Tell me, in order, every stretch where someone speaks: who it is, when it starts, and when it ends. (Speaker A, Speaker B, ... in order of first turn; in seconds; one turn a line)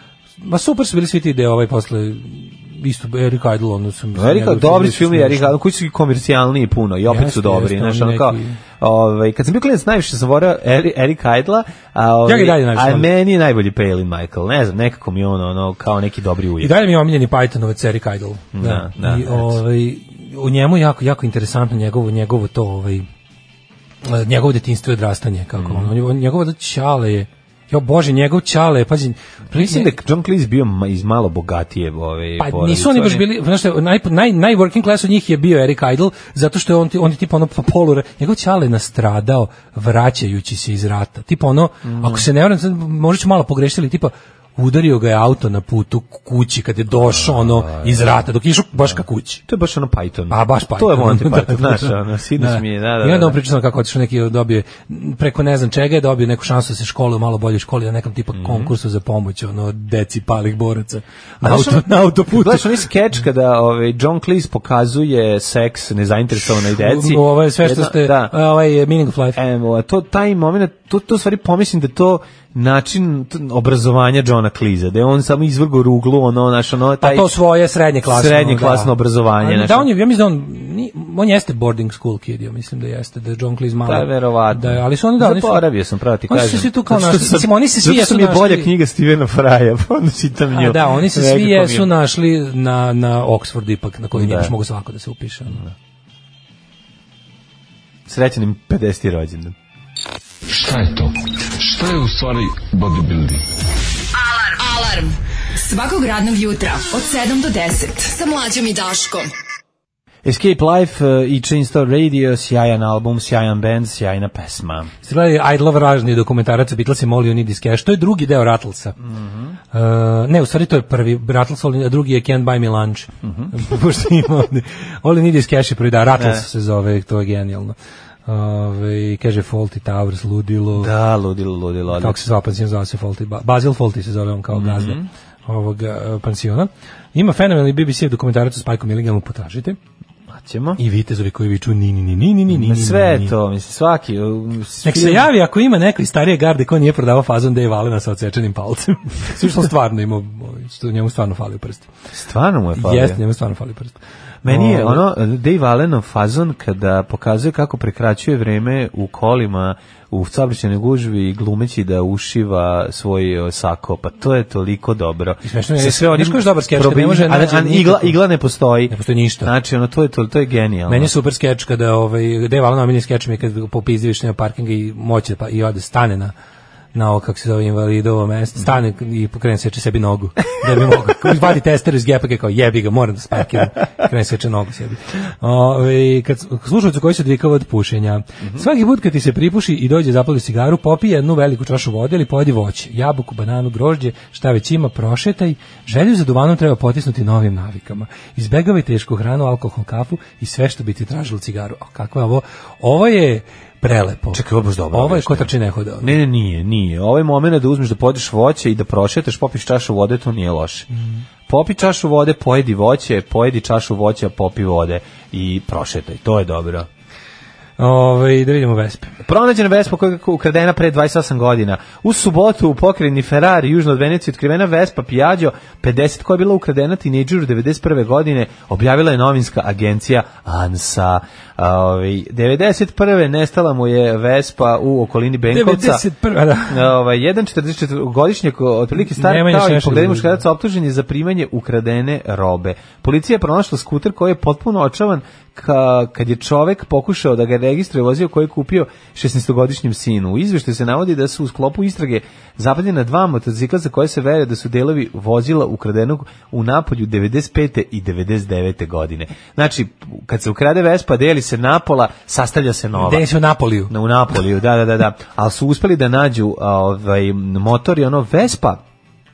Speaker A: 0.4-5.5
Speaker B: 4.2-16.8
Speaker A: 7.1-8.6
Speaker A: 12.3-13.1
Speaker A: 16.6-23.1
Speaker B: 18.5-19.6
Speaker A: 24.1-29.9
Speaker B: 25.6-25.9
Speaker B: 29.5-33.3
Speaker A: 32.4-49.4
Speaker B: 41.9-42.3
Speaker B: 46.9-48.2
Speaker B: 48.8-53.4
Speaker A: 50.3-62.8
Speaker B: 58.3-58.7
Speaker B: 61.4-68.3
Speaker A: 66.4-69.4
Speaker B: 69.3-77.3
Speaker A: 77.0-85.6
Speaker B: 78.1-79.9
Speaker B: 83.9-91.9
Speaker A: 86.3-88.7
Speaker A: 90.5-95.6
Speaker B: 94.1-94.5
Speaker B: 98.1-99.5
Speaker C: 100.5-101.1
Speaker C: 101.7-103.4
Speaker D: 104.2-109.3
Speaker B: 110.2-114.9
Speaker A: 115.0-119.0
Speaker B: 119.0-119.6
Speaker A: 119.7-127.8
Speaker B: 123.2-123.5
Speaker B: 126.2-126.5
Speaker A: 128.3-130.9
Speaker B: 130.8-132.2
Speaker A: 131.9-139.8
Speaker B: 134.5-135.1
Speaker B: 140.3-140.8
Speaker A: 140.8-143.3
Speaker B: 142.5-145.3
Speaker A: 144.8-151.9
Speaker B: 152.1-153.2
Speaker A: 152.8-155.1
Speaker B: 154.4-171.1
Speaker A: 165.4-168.2
Speaker A: 168.9-169.5
Speaker A: 170.9-176.3
Speaker A: 176.9-206.2
Speaker B: 204.3-205.5
Speaker B: 206.0-210.9
Speaker A: 210.9-211.2
Speaker B: 211.5-216.9
Speaker A: 217.8-219.1
Speaker B: 219.2-236.0
Speaker A: 235.5-236.8
Speaker B: 236.7-263.3
Speaker A: 239.1-240.4
Speaker A: 263.0-263.9
Speaker B: 263.9-268.8